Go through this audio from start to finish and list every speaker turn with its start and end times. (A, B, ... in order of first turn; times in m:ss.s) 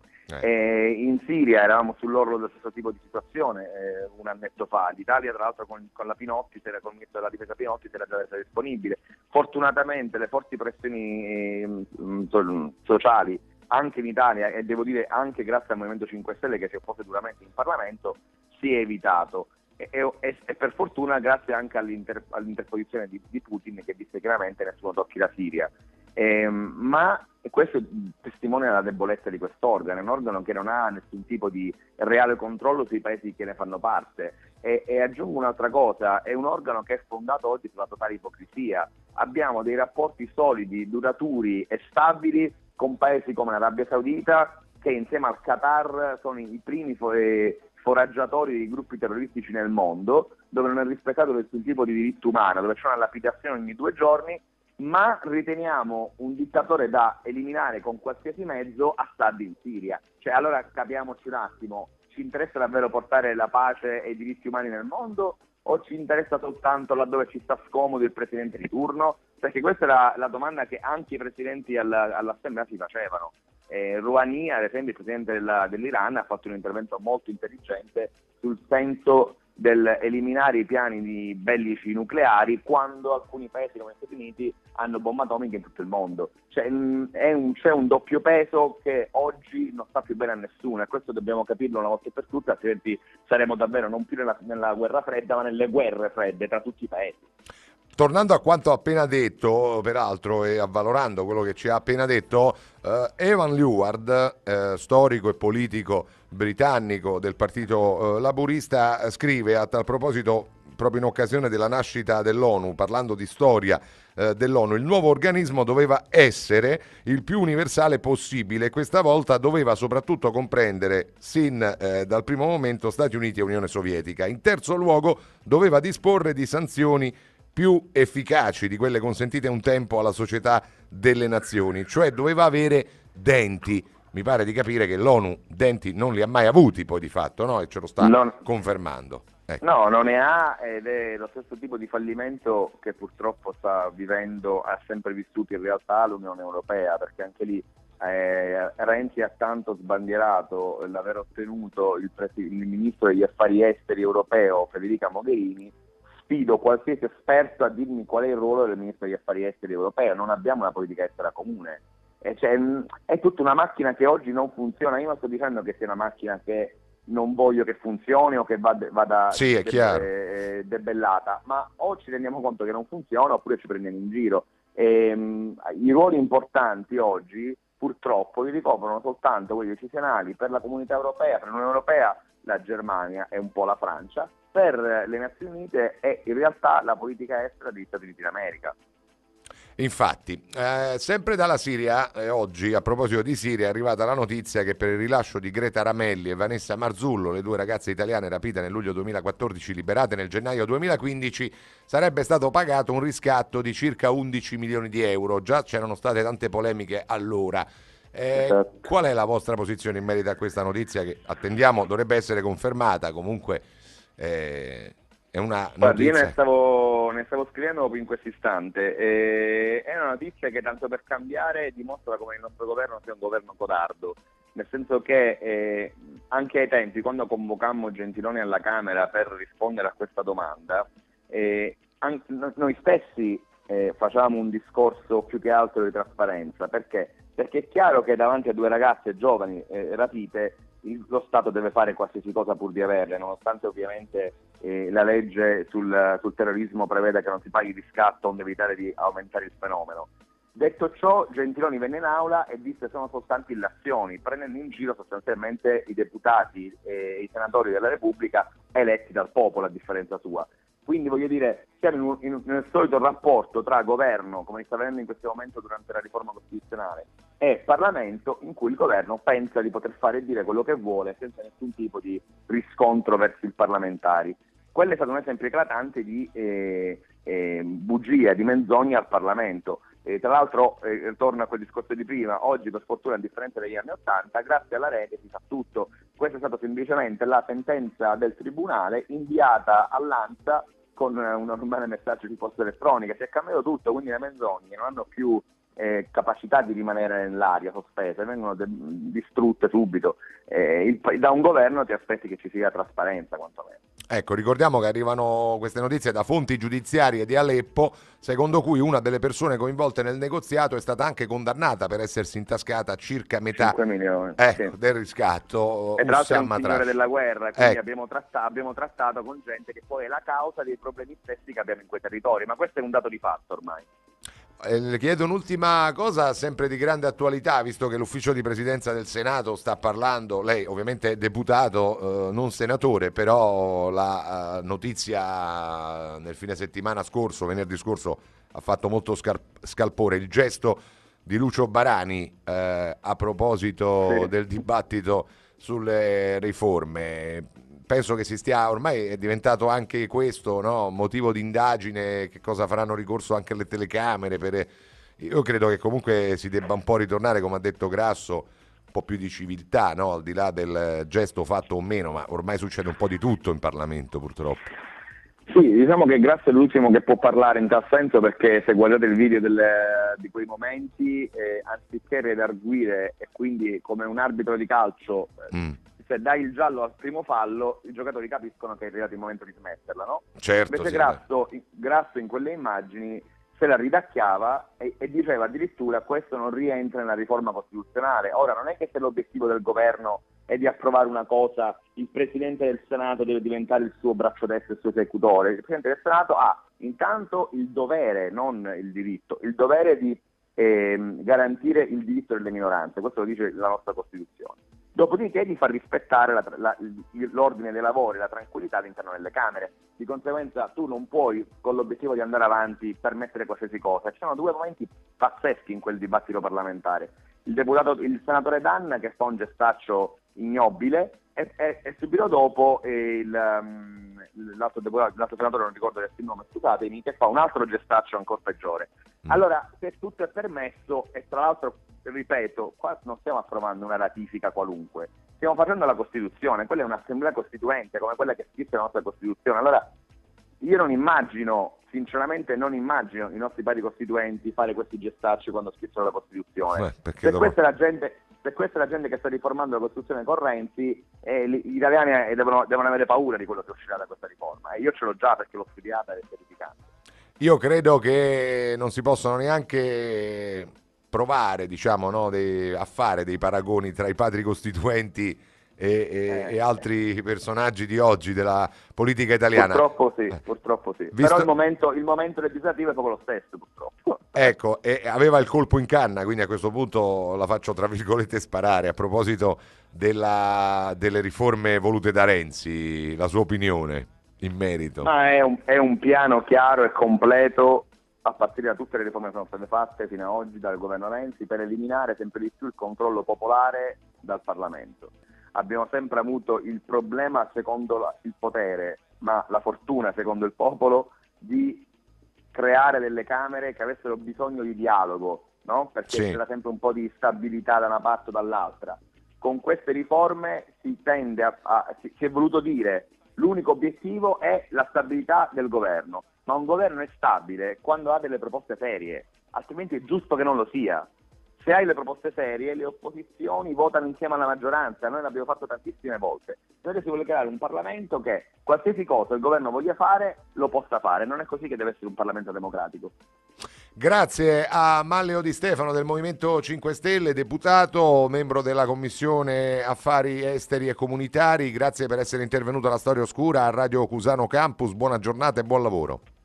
0:00.4-1:37.2 A
1:38.0-2:19.6 B
2:18.0-2:18.4 A
2:19.6-3:08.7 A
2:49.3-2:50.0 B
3:09.8-3:33.6 B
3:28.3-3:28.8 A
3:34.2-3:36.3 B
3:35.8-5:03.8 A
5:04.1-5:13.8 B
5:13.5-5:14.7 A
5:14.4-5:16.9 B
5:16.0-5:23.9 A
5:24.6-6:04.6 B
6:05.5-7:19.9 A
6:20.4-6:21.2 B
7:20.6-7:36.8 A
7:26.8-7:27.5 B
7:37.4-7:49.8 B
7:46.3-7:46.6 A
7:49.5-7:54.5 A
7:51.1-7:51.4 B
7:54.3-8:05.1 B
8:05.0-8:21.9 A
8:22.5-8:53.1 A
8:26.1-8:26.4 B
8:54.0-9:06.2 B